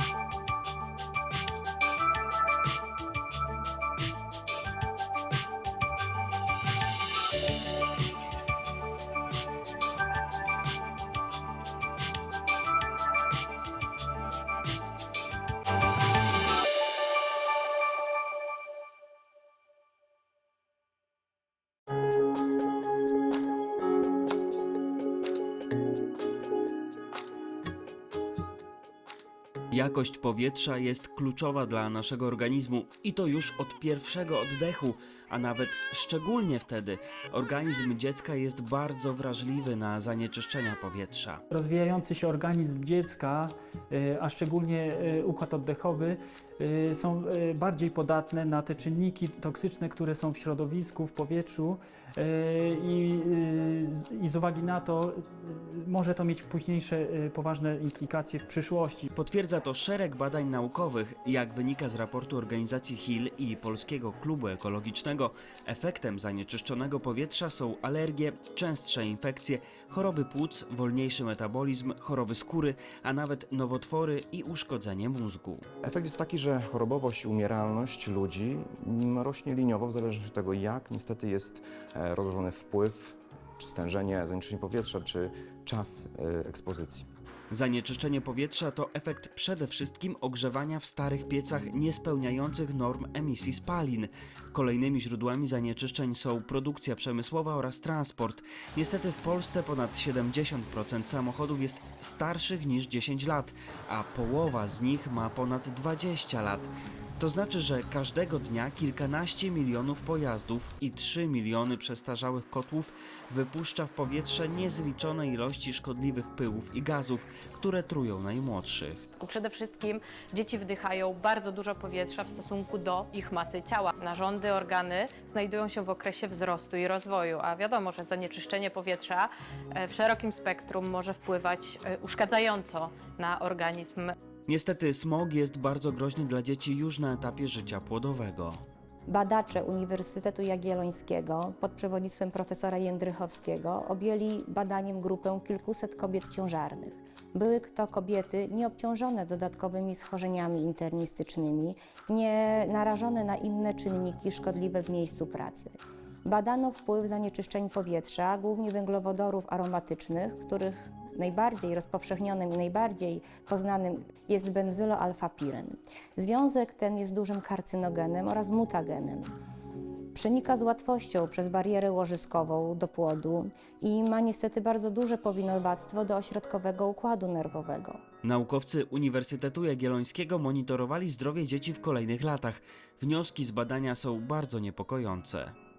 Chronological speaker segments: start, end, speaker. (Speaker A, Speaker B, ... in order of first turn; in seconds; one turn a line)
Speaker A: 29.7-41.4
Speaker B: 41.5-59.1
Speaker A: 59.1-75.7
Speaker C: 75.8-87.0
Speaker A: 87.5-119.0
Speaker D: 119.2-134.1
Speaker A: 134.5-138.6
Speaker E: 139.1-169.3
Speaker E: 170.1-178.0
Speaker A: 178.2-185.5